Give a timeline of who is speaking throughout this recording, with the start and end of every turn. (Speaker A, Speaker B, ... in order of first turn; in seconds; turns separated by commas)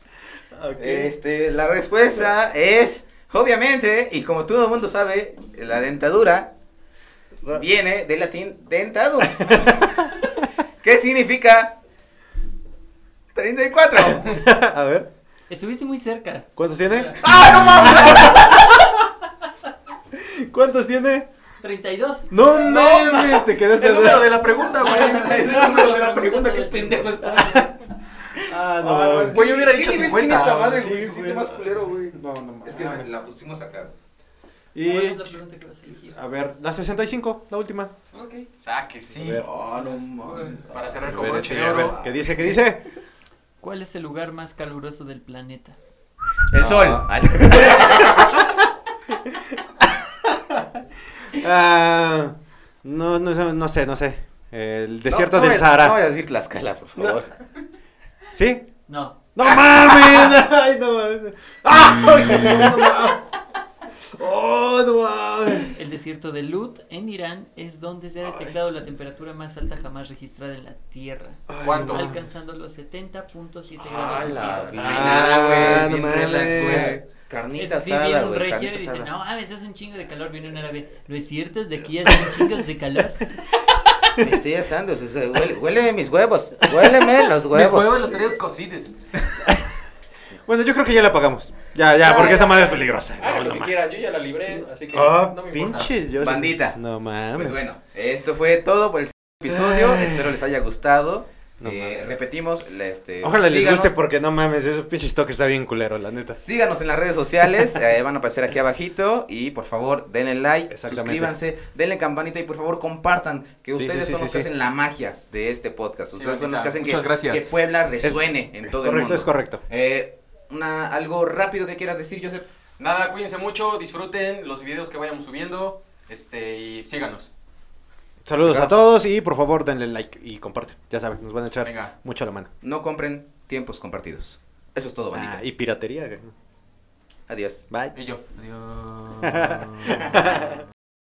Speaker A: 0.5-1.1, Speaker B: 0.8-6.5, Speaker B: 7.5-11.8, Speaker A: 9.4-9.7, Speaker B: 13.3-14.3, Speaker A: 14.0-15.1, Speaker C: 15.5-18.6, Speaker A: 16.6-18.9, Speaker B: 17.3-17.8, Speaker A: 20.1-21.3, Speaker C: 21.6-22.4, Speaker A: 22.3-24.4, Speaker D: 22.5-25.6, Speaker C: 24.6-27.8, Speaker B: 24.8-27.7, Speaker A: 27.4-27.7, Speaker A: 28.3-29.5, Speaker B: 28.3-33.9, Speaker D: 29.2-30.8, Speaker A: 30.1-33.1, Speaker A: 34.7-35.4, Speaker C: 34.8-36.2, Speaker A: 36.1-37.9, Speaker C: 38.1-38.5, Speaker D: 38.6-39.4, Speaker A: 39.2-39.5, Speaker B: 39.3-42.1, Speaker C: 39.8-40.6, Speaker D: 40.7-42.2, Speaker A: 41.0-42.8, Speaker C: 43.6-45.8, Speaker B: 46.5-48.4, Speaker A: 46.5-47.9, Speaker A: 49.1-56.0, Speaker B: 55.1-57.4, Speaker A: 58.3-58.6, Speaker C: 58.9-59.2, Speaker A: 59.3-63.3, Speaker A: 64.1-65.7, Speaker C: 65.7-75.0, Speaker A: 68.3-68.5, Speaker A: 71.5-72.2, Speaker D: 71.6-72.1, Speaker B: 73.8-79.1, Speaker D: 74.1-77.0, Speaker A: 74.7-77.0, Speaker C: 77.5-83.4, Speaker B: 84.2-88.1, Speaker D: 87.5-89.4, Speaker A: 89.5-89.8, Speaker A: 90.5-93.8, Speaker D: 92.0-95.9, Speaker A: 94.5-97.6, Speaker B: 96.2-96.8, Speaker B: 97.3-103.9, Speaker A: 99.5-100.4, Speaker A: 101.6-102.0, Speaker A: 103.2-106.4, Speaker B: 106.3-122.5, Speaker A: 110.7-111.3, Speaker A: 113.7-114.5, Speaker D: 116.1-117.5, Speaker A: 118.0-119.6, Speaker D: 122.8-127.3, Speaker A: 128.2-132.5, Speaker B: 128.4-128.8, Speaker D: 131.6-131.9, Speaker B: 132.6-135.4, Speaker A: 135.1-136.3, Speaker B: 137.3-137.7, Speaker D: 137.9-140.2, Speaker A: 139.2-140.5